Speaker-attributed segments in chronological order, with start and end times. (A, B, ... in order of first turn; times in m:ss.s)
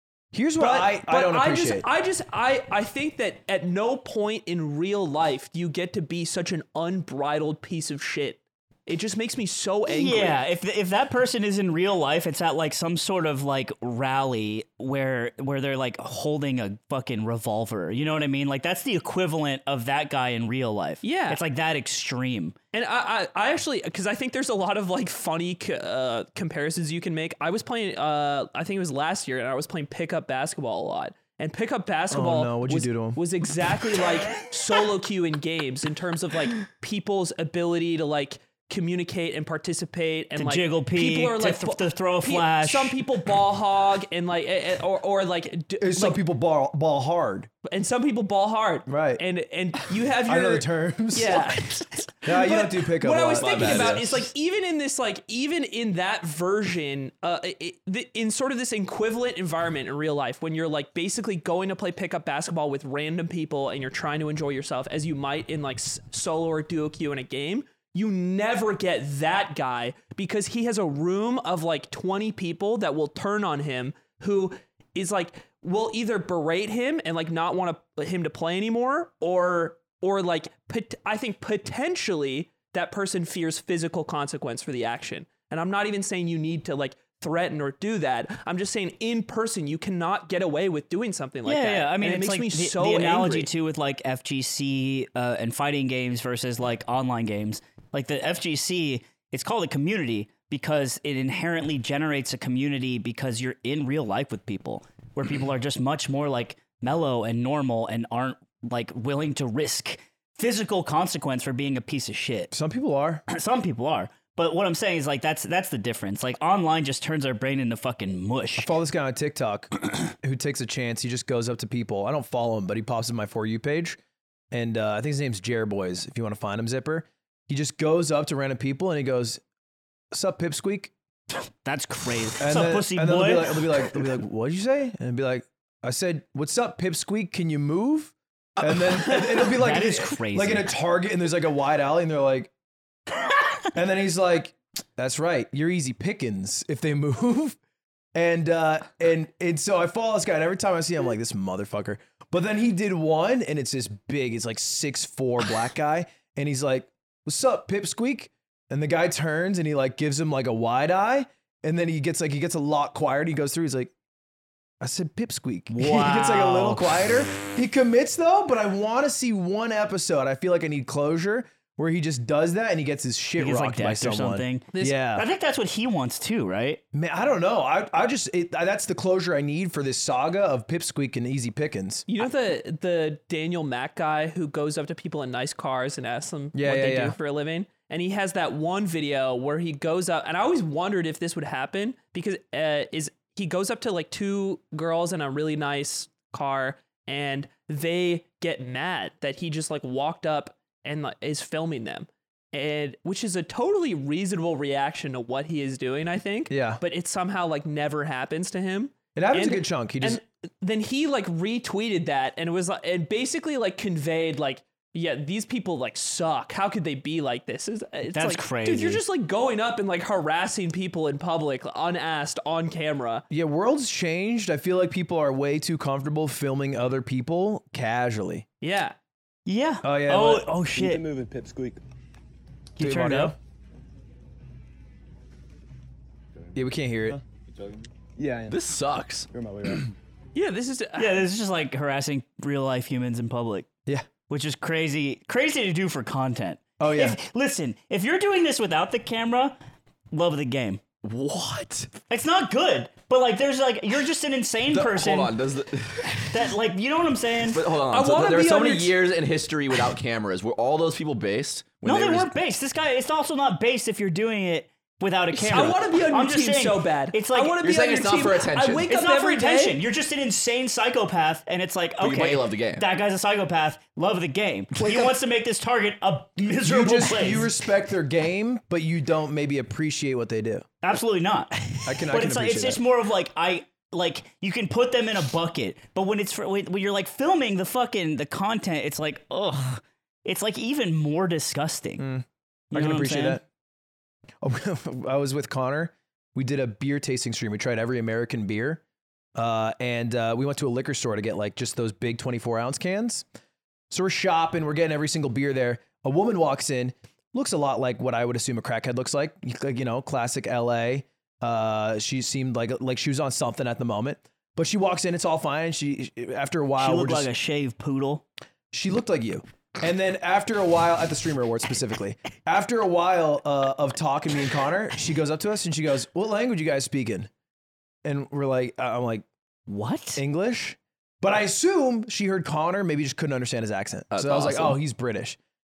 0:00.3-0:01.9 A
0:00.6-0:10.4 B
0:09.9-0:22.6 C
0:21.0-0:21.4 B
0:22.7-0:46.2 B
0:32.1-0:33.2 A
0:40.4-0:43.0 C
0:45.8-0:47.5 A
0:47.6-1:33.5 B
0:48.9-0:49.2 A
0:50.3-0:51.5 A
0:52.2-0:54.2 A
0:53.4-0:54.2 D
1:31.4-1:52.5 C
1:52.5-1:53.2 A
1:53.3-1:58.7 C
1:58.6-2:04.0 A
2:04.5-2:09.4 A
2:10.1-2:10.9 A
2:11.6-2:14.0 C
2:12.4-2:22.5 A
2:19.4-2:20.8 C
2:23.7-2:27.6 A
2:28.1-2:43.9 A
2:44.8-2:55.3 A
2:45.7-2:46.9 C
2:53.4-2:56.8 C
2:54.7-2:55.0 B
2:56.9-3:02.1 A
3:02.1-3:43.2 B
3:06.5-3:07.2 A
3:26.5-3:26.8 A
3:29.2-3:30.2 A
3:38.1-3:39.0 C
3:43.3-3:48.4 A
3:48.6-3:49.0 B
3:49.5-3:51.0 C
3:49.8-3:50.5 A
3:50.8-3:51.8 E
3:52.8-3:53.4 C
3:52.8-3:53.4 A
3:56.6-3:57.2 A
3:57.1-3:58.6 E
3:58.5-3:59.3 D
3:59.3-3:59.9 E
4:00.4-4:01.3 B
4:01.0-4:03.7 C
4:04.3-4:09.6 C
4:06.8-4:07.2 A
4:10.1-4:10.8 C
4:11.0-4:11.9 D
4:12.1-4:15.3 C
4:14.7-4:16.5 D
4:16.3-4:17.6 C
4:17.5-4:22.3 D
4:17.9-4:19.0 B
4:21.8-4:27.6 C
4:25.4-4:29.8 B
4:25.5-4:25.8 D
4:27.6-4:28.9 D
4:28.9-4:37.5 C
4:32.0-4:32.8 D
4:34.8-4:35.1 D
4:36.6-4:40.7 A
4:40.8-4:52.0 C
4:41.8-4:42.8 A
4:52.0-4:53.4 A
4:52.7-4:53.4 C
4:54.4-4:58.8 A
4:59.4-5:03.2 A
5:03.9-5:17.3 A
5:16.8-5:18.2 C
5:18.7-5:27.3 A
5:28.0-5:29.3 A
5:29.7-5:30.2 C
5:30.2-5:35.4 A
5:34.1-5:34.8 D